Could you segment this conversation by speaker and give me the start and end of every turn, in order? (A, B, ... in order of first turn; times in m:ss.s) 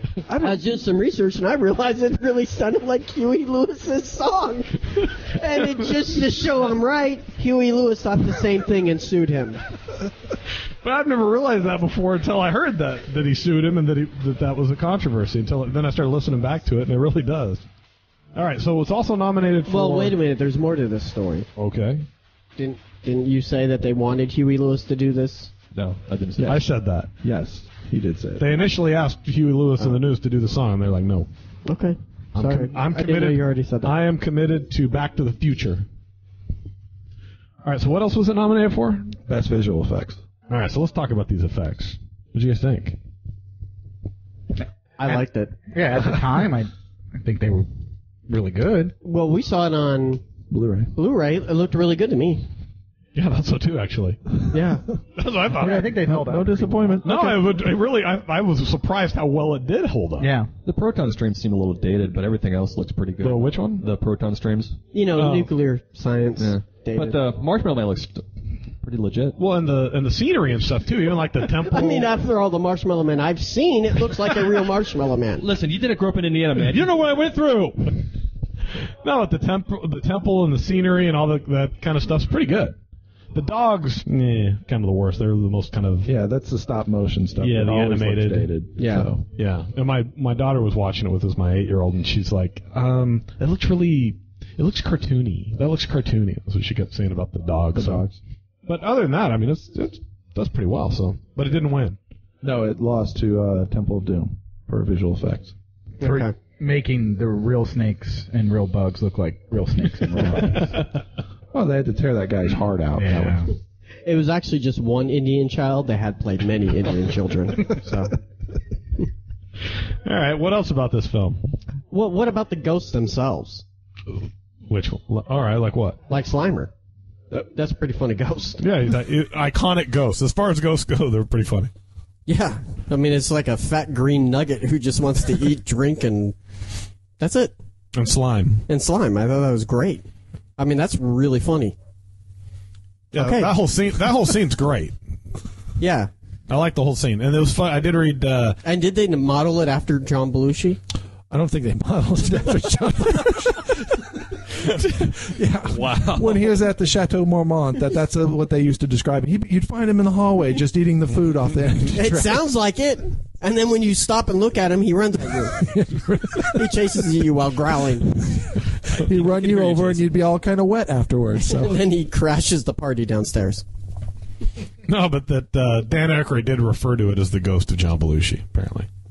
0:00.3-0:00.6 A
0:00.3-0:09.6 B
0:10.8-0:17.6 C
0:18.3-0:20.2 C
0:19.7-0:21.5 B
0:21.6-0:22.0 C
0:22.6-0:25.5 B
0:25.7-0:26.6 D
0:26.4-0:27.1 C
0:27.2-0:28.5 A
0:28.4-0:31.3 C
0:31.6-0:33.9 B
0:32.3-0:35.8 C
0:37.6-0:39.1 C
0:39.2-0:40.2 A
0:40.5-0:43.0 C
0:45.0-0:45.6 B
0:45.0-0:47.7 E
0:48.3-0:48.9 E
0:49.0-0:50.2 B
0:50.5-0:50.9 A
0:50.9-0:52.5 B
0:53.1-0:54.2 C
0:54.5-0:54.8 B
0:55.2-0:55.9 C
0:55.5-0:57.2 E
0:55.6-0:57.5 A
0:57.0-1:00.3 C
1:00.2-1:00.5 E
1:00.6-1:04.8 D
1:03.2-1:03.8 C
1:04.9-1:07.2 B
1:05.1-1:05.5 C
1:06.4-1:08.2 D
1:08.8-1:09.4 D
1:09.4-1:12.1 C
1:11.7-1:15.4 B
1:15.4-1:17.0 D
1:16.6-1:18.0 C
1:19.0-1:22.8 C
1:23.3-1:26.1 C
1:26.0-1:29.2 A
1:27.4-1:28.5 C
1:28.8-1:29.1 B
1:29.3-1:38.0 C
1:37.7-1:38.2 A
1:38.6-1:42.0 C
1:42.4-1:45.5 A
1:46.0-1:46.3 B
1:46.0-1:50.9 E
1:51.5-1:53.4 A
1:53.0-1:53.5 E
1:54.0-1:58.1 B
2:00.0-2:01.4 C
2:01.9-2:03.6 B
2:04.7-2:06.0 C
2:06.1-2:06.7 B
2:07.3-2:08.6 B
2:08.6-2:11.7 C
2:12.3-2:16.4 B
2:17.2-2:17.5 B
2:18.0-2:18.6 C
2:18.7-2:20.0 B
2:20.6-2:21.8 B
2:23.1-2:24.9 C
2:23.1-2:23.5 B
2:25.8-2:26.1 B
2:26.5-2:28.6 C
2:28.6-2:30.8 B
2:31.3-2:42.4 A
2:35.7-2:36.4 D
2:41.9-2:45.6 B
2:45.6-2:46.7 A
2:46.4-2:48.1 B
2:48.2-2:51.8 A
2:49.6-2:49.8 D
2:51.4-2:53.6 B
2:54.8-2:58.9 C